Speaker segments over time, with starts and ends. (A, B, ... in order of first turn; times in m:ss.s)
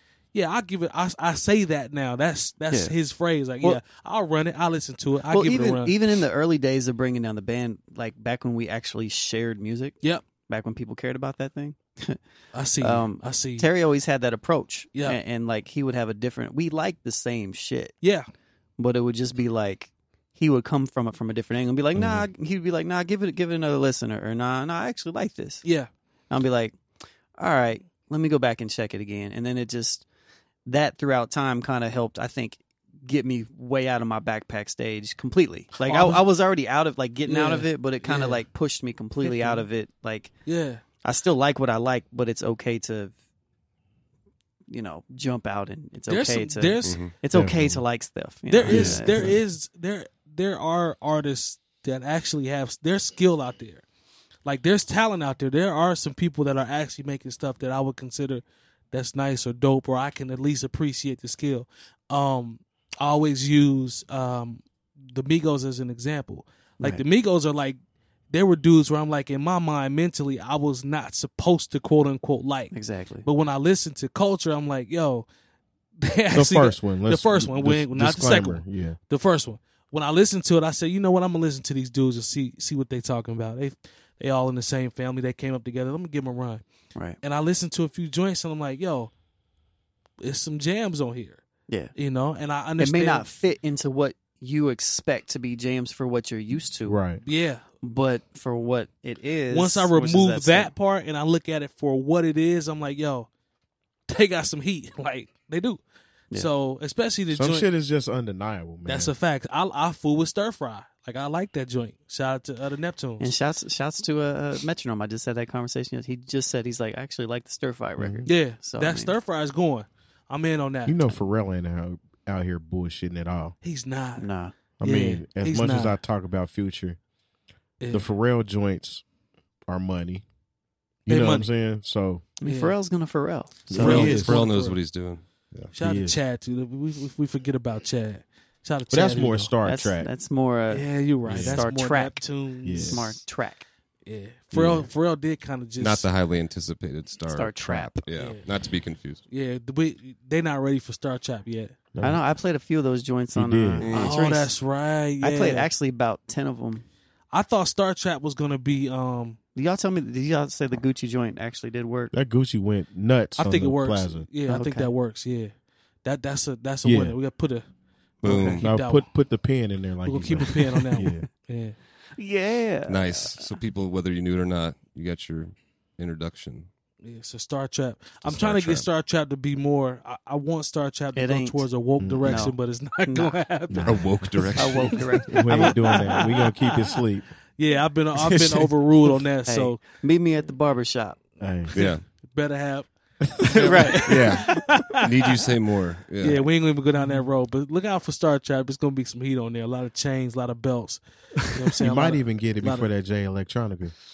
0:00.3-0:06.0 A
0:05.3-0:12.2 B
0:12.5-0:13.7 A
0:12.8-0:17.9 B
0:14.9-0:15.2 A
0:18.8-0:25.6 B
0:21.9-0:22.3 C
0:25.6-0:25.9 A
0:26.3-0:26.8 B
0:27.4-0:30.0 B
0:30.6-0:40.3 B
0:35.8-0:36.2 A
0:37.2-0:38.4 A
0:39.2-0:39.6 A
0:40.4-0:40.8 A
0:41.0-0:43.1 B
0:44.7-0:49.3 B
0:46.1-0:47.0 A
0:46.8-0:47.1 D
0:47.3-0:47.8 C
0:48.5-0:53.8 A
0:48.6-0:49.0 D
0:48.8-0:49.3 C
0:54.4-1:07.8 A
1:08.3-1:12.7 A
1:12.7-1:13.3 B
1:13.2-1:15.2 A
1:16.0-1:26.6 A
1:16.3-1:19.0 C
1:27.2-1:29.1 A
1:30.2-1:31.4 A
1:31.9-1:33.2 A
1:32.8-1:37.0 B
1:36.8-1:37.2 C
1:37.2-1:37.6 A
1:37.8-1:40.7 B
1:39.5-1:43.3 A
1:44.1-1:45.8 A
1:46.3-1:47.7 A
1:47.3-1:49.1 C
1:48.8-1:53.3 A
1:53.2-1:59.1 B
1:58.0-1:58.3 C
1:58.2-2:01.0 A
2:00.8-2:03.5 C
2:03.6-2:04.2 A
2:04.2-2:04.5 B
2:04.8-2:07.0 C
2:04.8-2:06.0 A
2:07.8-2:08.1 A
2:07.9-2:09.0 C
2:09.7-2:10.2 C
2:11.0-2:12.2 C
2:11.1-2:11.5 A
2:12.4-2:14.2 B
2:12.4-2:12.7 A
2:13.7-2:14.3 C
2:13.7-2:14.8 A
2:13.8-2:15.7 D
2:15.7-2:19.5 A
2:15.8-2:16.2 C
2:18.9-2:20.1 C
2:19.6-2:22.2 B
2:20.7-2:23.2 A
2:21.3-2:21.6 C
2:22.6-2:23.1 C
2:22.8-2:23.6 B
2:24.0-2:26.1 A
2:24.5-2:24.8 C
2:25.8-2:29.2 D
2:27.3-2:28.0 B
2:28.2-2:28.4 A
2:29.3-2:31.8 A
2:31.9-2:32.2 C
2:32.0-2:34.5 B
2:33.3-2:33.9 C
2:33.8-2:34.2 D
2:33.9-2:35.7 A
2:35.2-2:36.8 B
2:37.3-2:39.4 A
2:39.5-2:42.1 B
2:42.1-2:44.3 C
2:43.4-2:45.5 A
2:44.5-2:44.9 B
2:46.0-2:47.6 A
2:46.8-2:47.2 C
2:48.2-2:48.6 D
2:48.2-2:49.1 A
2:48.6-2:51.3 C
2:50.0-2:51.8 A
2:52.2-2:53.6 B
2:52.9-2:56.7 D
2:57.0-3:04.1 A
2:58.3-2:58.8 D
3:01.1-3:01.7 B
3:02.0-3:02.5 C
3:02.2-3:03.3 B
3:03.7-3:04.5 C
3:03.8-3:05.3 D
3:04.5-3:06.5 B
3:04.8-3:06.8 A
3:05.3-3:07.2 C
3:07.6-3:09.8 A
3:08.2-3:11.2 B
3:11.4-3:11.7 C
3:11.7-3:12.0 D
3:11.8-3:12.9 A
3:13.2-3:14.2 C
3:13.4-3:15.0 A
3:13.6-3:14.7 B
3:13.9-3:16.4 D
3:16.2-3:22.9 A
3:21.8-3:23.9 C